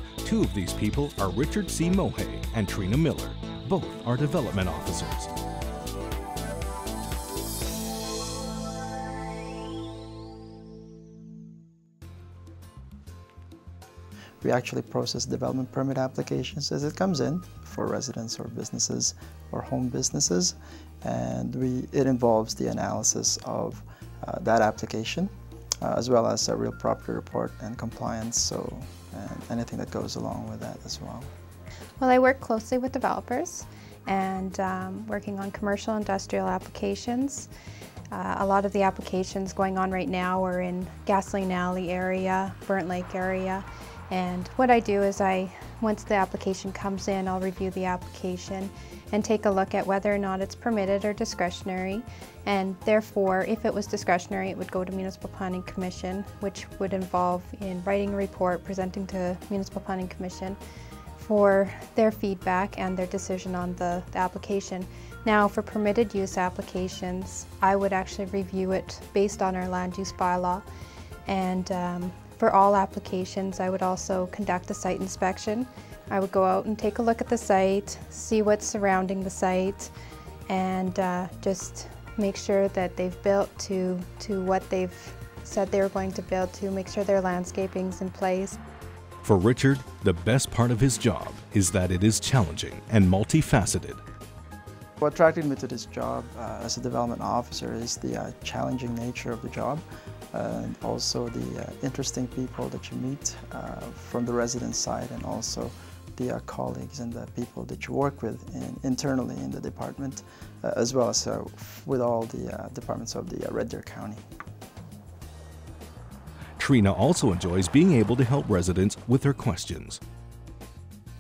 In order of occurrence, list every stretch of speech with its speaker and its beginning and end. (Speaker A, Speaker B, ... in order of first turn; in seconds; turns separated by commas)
Speaker A: 0.2-5.3, Speaker B: 14.4-31.3, Speaker C: 32.0-37.5, Speaker C: 38.1-60.6, Speaker C: 61.2-70.7, Speaker C: 71.3-79.9, Speaker C: 80.5-88.6, Speaker A: 89.2-94.0, Speaker B: 95.0-114.2, Speaker A: 116.6-120.0